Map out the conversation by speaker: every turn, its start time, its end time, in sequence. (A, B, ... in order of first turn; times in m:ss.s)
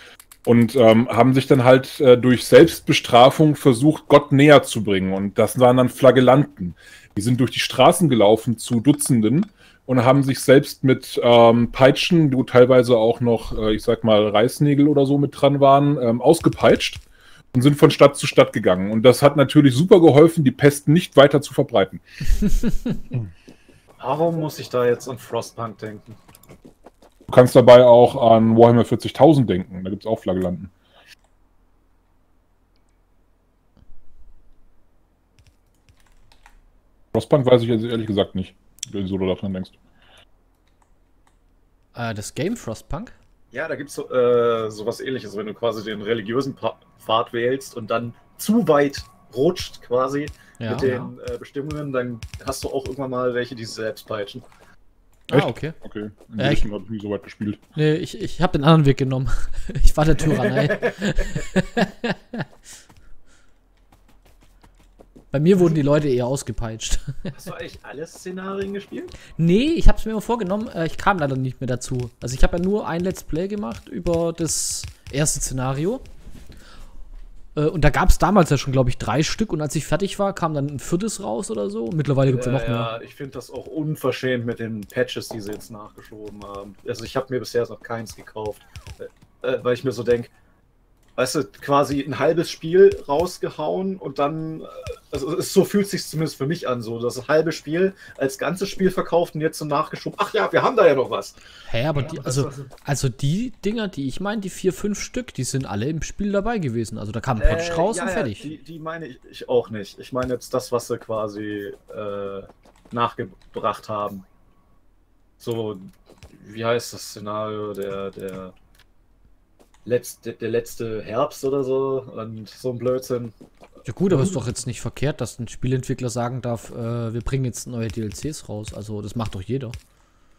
0:00.4-0:17.0 A
0:17.5-0:22.0 A
0:24.0-0:26.2 B
0:27.3-0:30.7 A
0:37.1-0:39.8 A
0:41.9-0:43.1 C
0:43.5-0:54.4 B
0:50.6-0:51.1 C
0:55.3-0:55.8 C
0:55.3-0:57.6 A
0:56.4-0:56.7 C
0:57.8-1:02.5 C
1:00.6-1:01.0 B
1:05.3-1:07.4 C
1:07.3-1:09.2 B
1:09.3-1:16.0 C
1:17.5-1:23.0 C
1:22.3-1:30.3 B
1:31.2-1:41.4 B
1:41.7-1:48.6 C
1:42.0-1:42.7 B
1:47.4-1:54.2 B
1:55.4-1:58.5 B
1:59.8-2:03.3 B
2:03.8-2:09.8 C